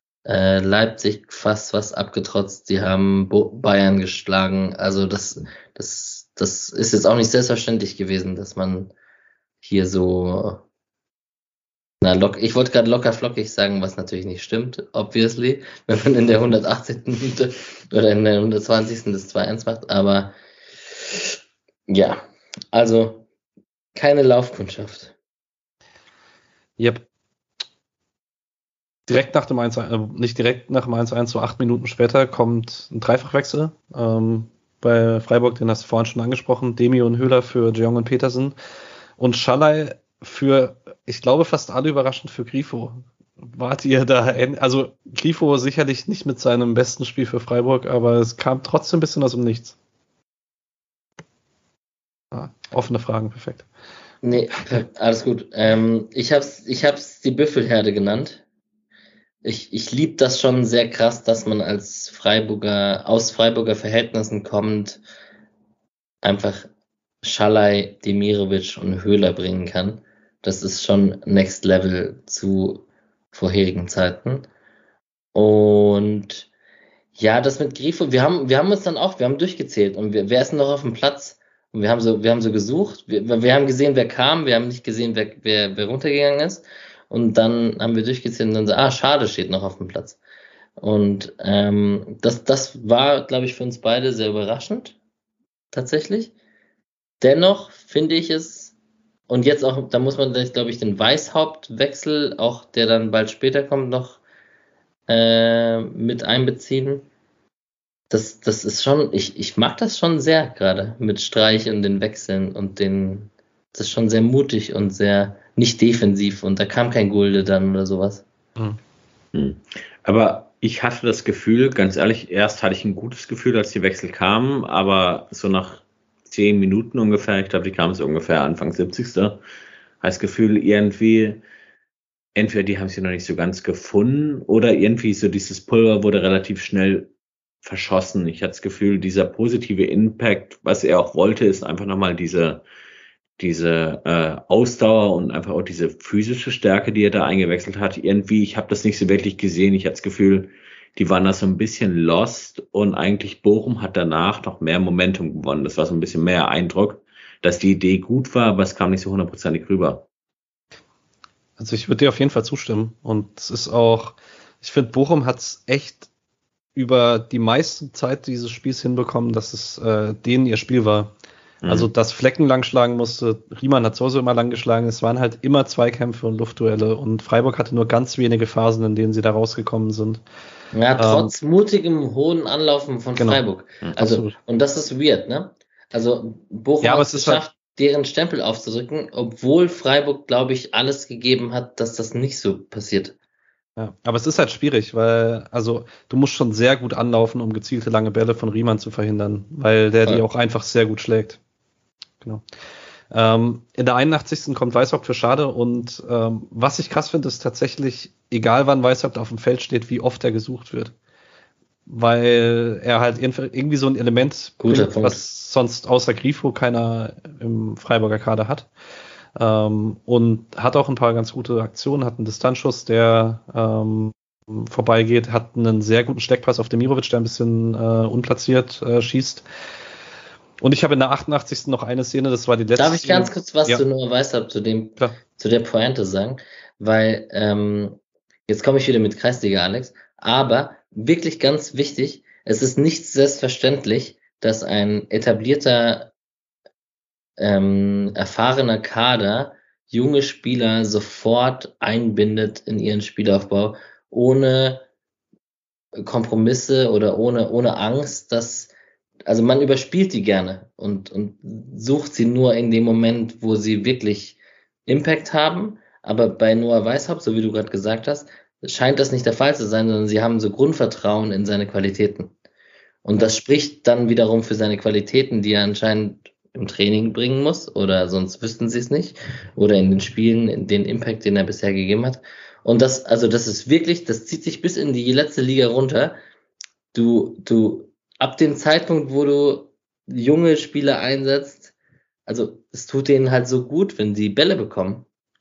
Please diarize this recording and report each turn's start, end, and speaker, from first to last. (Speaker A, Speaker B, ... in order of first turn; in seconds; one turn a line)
Speaker A: 0.3-8.9
Speaker A: 9.6-10.6
Speaker A: 12.0-20.4
Speaker A: 21.9-22.2
Speaker A: 22.7-23.2
Speaker A: 23.9-25.1
Speaker B: 29.1-38.5
Speaker B: 39.2-49.8
Speaker B: 52.3-53.7
Speaker A: 54.2-58.4
Speaker A: 59.4-65.0
Speaker A: 66.2-66.7
Speaker A: 67.2-74.5
Speaker A: 75.3-76.5
Speaker A: 77.2-90.2
Speaker A: 90.8-95.0
Speaker A: 95.7-96.3
Speaker A: 97.2-98.8
Speaker A: 99.3-104.2
Speaker A: 105.1-107.1
Speaker A: 108.1-118.2
Speaker C: 119.3-129.4
Speaker C: 130.0-131.4
Speaker C: 132.4-137.1
Speaker C: 137.6-142.6
Speaker C: 143.4-160.1
Speaker B: 161.6-166.1
Speaker B: 166.8-171.1
Speaker C: 171.6-171.9
Speaker B: 171.7-180.2
Speaker A: 180.7-193.2
Speaker B: 181.0-181.3
Speaker B: 183.2-183.4
Speaker B: 183.9-184.4
Speaker B: 186.8-187.4
Speaker B: 193.8-201.4
Speaker B: 203.1-210.9
Speaker B: 211.9-218.7
Speaker A: 214.6-215.2
Speaker B: 219.4-229.4
Speaker B: 230.6-233.8
Speaker A: 232.8-246.1
Speaker A: 247.4-254.8
Speaker A: 256.0-258.7
Speaker A: 259.3-272.3
Speaker A: 273.1-286.2
Speaker A: 286.9-291.7
Speaker A: 292.3-295.1